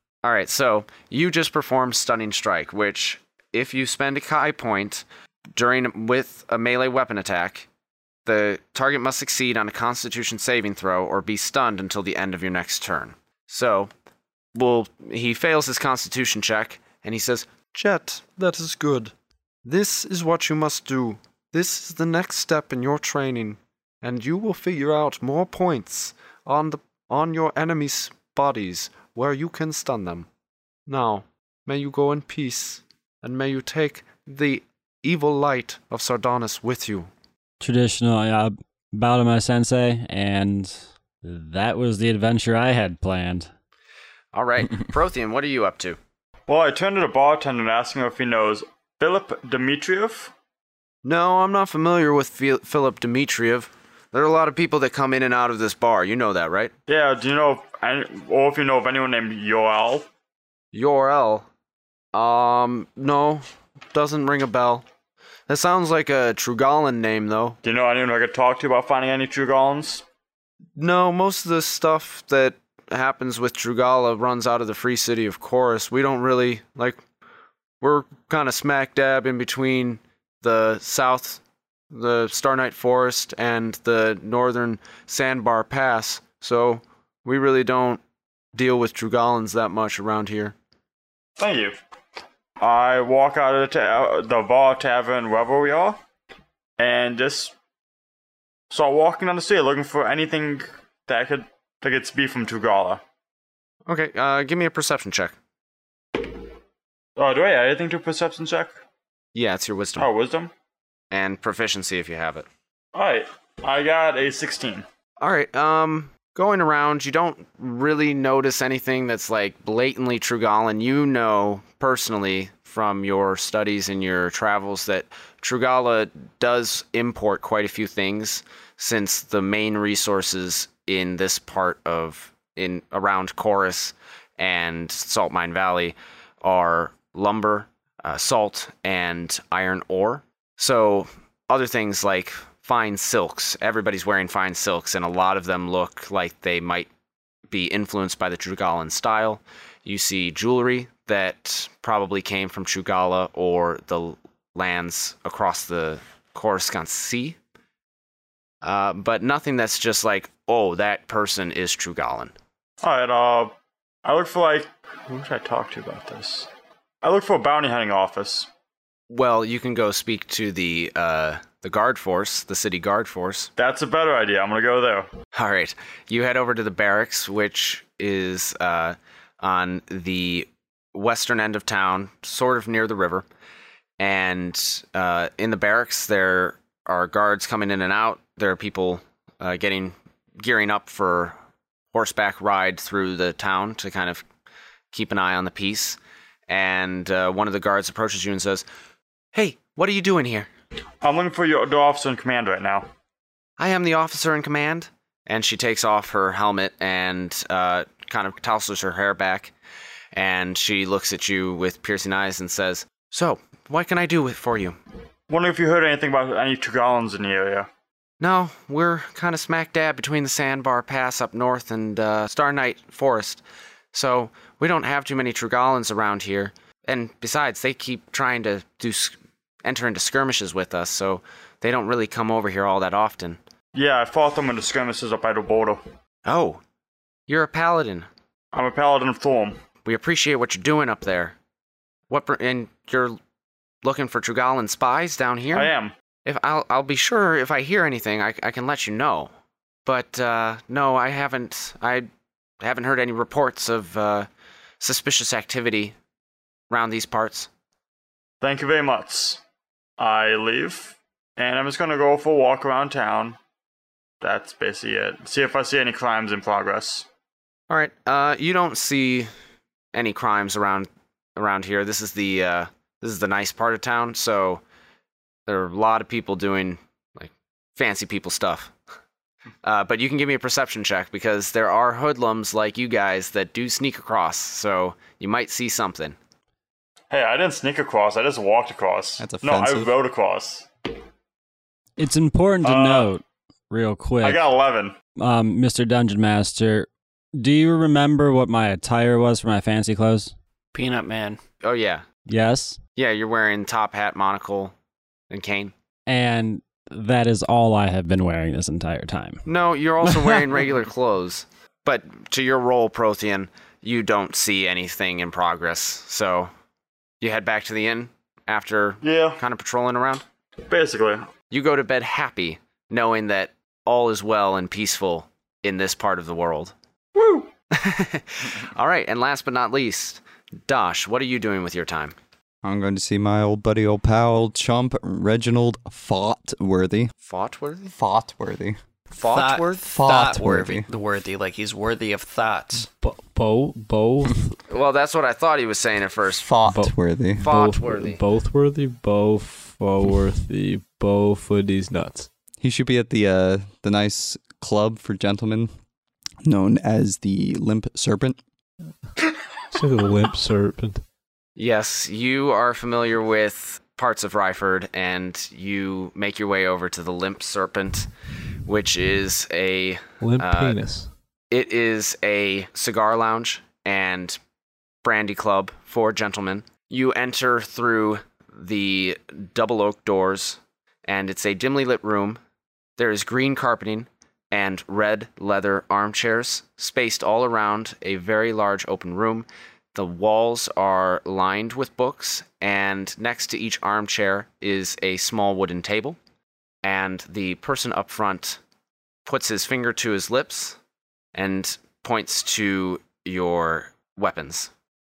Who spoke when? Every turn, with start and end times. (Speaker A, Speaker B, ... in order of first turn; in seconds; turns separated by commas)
Speaker A: 0.2-5.0, Speaker A: 5.5-7.7, Speaker A: 8.2-13.9, Speaker A: 14.5-17.5, Speaker B: 17.7-19.1, Speaker B: 19.6-30.3, Speaker B: 30.9-37.1, Speaker C: 37.6-43.5, Speaker A: 44.3-46.0, Speaker D: 46.5-50.3, Speaker A: 51.0-56.7, Speaker D: 56.9-60.1, Speaker A: 60.7-61.5, Speaker A: 62.1-64.8, Speaker A: 65.5-67.6, Speaker D: 67.6-70.0, Speaker A: 70.8-77.0, Speaker A: 77.8-88.0, Speaker A: 88.5-90.5, Speaker D: 91.4-91.8, Speaker D: 92.6-96.0, Speaker D: 96.8-97.5, Speaker D: 98.7-103.0, Speaker A: 103.9-105.3, Speaker D: 106.2-106.4, Speaker D: 107.2-108.8, Speaker A: 109.3-110.1, Speaker D: 110.0-110.5, Speaker A: 111.1-112.5, Speaker D: 112.9-114.8, Speaker A: 115.2-146.9, Speaker A: 147.5-157.4, Speaker A: 158.6-162.3, Speaker D: 162.8-163.5, Speaker D: 164.0-166.5, Speaker D: 167.0-168.5, Speaker A: 169.1-173.5, Speaker D: 173.6-175.1, Speaker A: 175.3-183.2, Speaker A: 184.0-191.3, Speaker A: 191.9-194.2, Speaker A: 194.9-198.6, Speaker A: 199.3-200.5, Speaker D: 201.0-202.9, Speaker A: 203.6-209.5, Speaker A: 210.1-214.8, Speaker D: 215.3-217.7, Speaker A: 218.2-223.4, Speaker A: 223.9-233.4, Speaker D: 233.7-235.8, Speaker A: 236.2-236.6, Speaker A: 237.3-238.1, Speaker D: 238.5-239.6, Speaker A: 239.8-241.3, Speaker A: 242.1-243.2, Speaker A: 243.8-245.7, Speaker D: 245.5-245.9, Speaker A: 246.2-249.3, Speaker A: 249.8-252.1, Speaker A: 252.6-254.3, Speaker A: 254.8-255.9, Speaker A: 256.7-257.5, Speaker D: 258.4-259.4, Speaker D: 260.0-263.4, Speaker D: 264.2-267.1, Speaker A: 267.7-269.3, Speaker A: 269.9-274.6, Speaker A: 275.5-278.7, Speaker A: 279.6-286.1, Speaker D: 287.1-290.7, Speaker E: 289.2-289.9, Speaker C: 292.0-294.4, Speaker D: 292.6-293.1, Speaker D: 294.2-294.9, Speaker C: 295.2-300.3, Speaker F: 300.7-301.4, Speaker A: 301.6-302.0, Speaker C: 302.3-302.8, Speaker A: 303.0-304.7, Speaker A: 305.3-305.7, Speaker C: 306.1-309.4, Speaker A: 309.4-316.5, Speaker C: 310.0-310.4, Speaker A: 317.2-320.2, Speaker D: 319.0-319.4, Speaker D: 320.7-321.3, Speaker A: 321.5-326.7, Speaker D: 327.1-327.5, Speaker A: 327.7-332.1, Speaker E: 332.6-337.1, Speaker A: 337.2-337.9, Speaker E: 337.9-338.8, Speaker A: 339.1-339.8, Speaker F: 339.2-342.9, Speaker E: 339.8-340.9, Speaker G: 343.0-344.6, Speaker A: 344.7-346.5, Speaker E: 346.3-347.4, Speaker G: 346.6-352.3, Speaker A: 347.4-348.2, Speaker E: 352.6-355.7, Speaker E: 356.4-358.4, Speaker G: 359.7-361.0, Speaker A: 361.6-368.1, Speaker A: 368.6-370.8, Speaker G: 370.2-371.1, Speaker A: 371.5-374.4, Speaker A: 375.0-382.4, Speaker A: 383.0-396.2, Speaker A: 396.8-398.6, Speaker A: 399.2-400.8, Speaker A: 401.3-404.7